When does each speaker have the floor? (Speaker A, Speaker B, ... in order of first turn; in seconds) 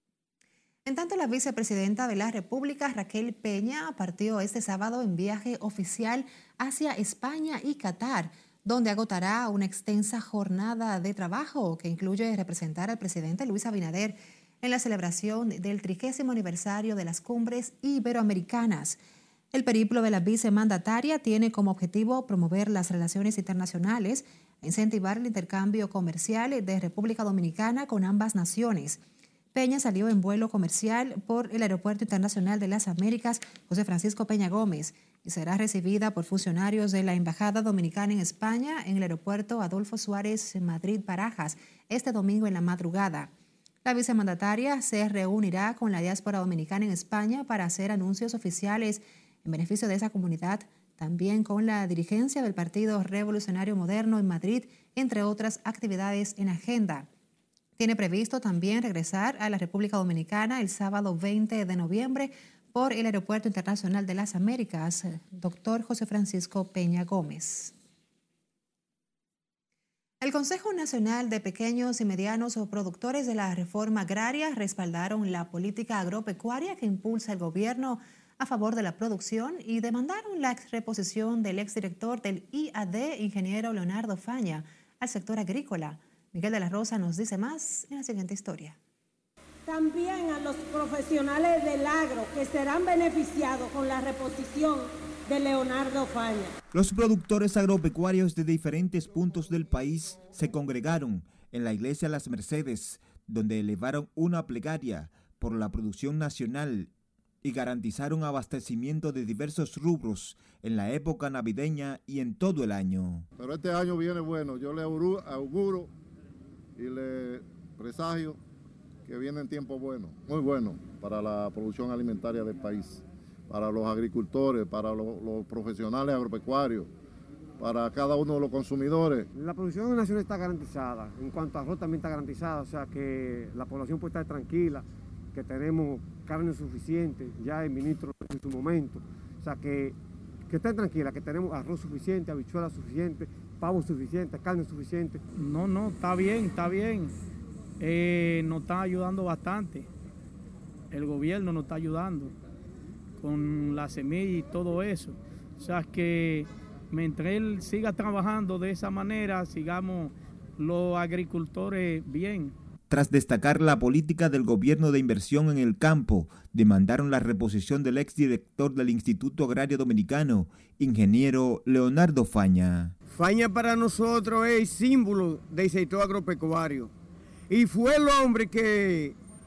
Speaker A: 0.8-19.0, 19.5-29.0, 29.5-43.3, 43.8-57.1, 57.8-67.7, 70.2-88.8
Speaker B: 89.7-96.5
Speaker C: 96.7-106.9, 107.4-113.3, 162.9-172.9
Speaker D: 113.4-115.9, 116.8-118.4, 119.0-126.9, 127.6-129.3
Speaker E: 129.3-145.2
Speaker F: 145.3-147.1, 147.8-149.9, 150.9-152.3, 153.2-162.5
Speaker G: 173.1-176.9, 177.5-179.2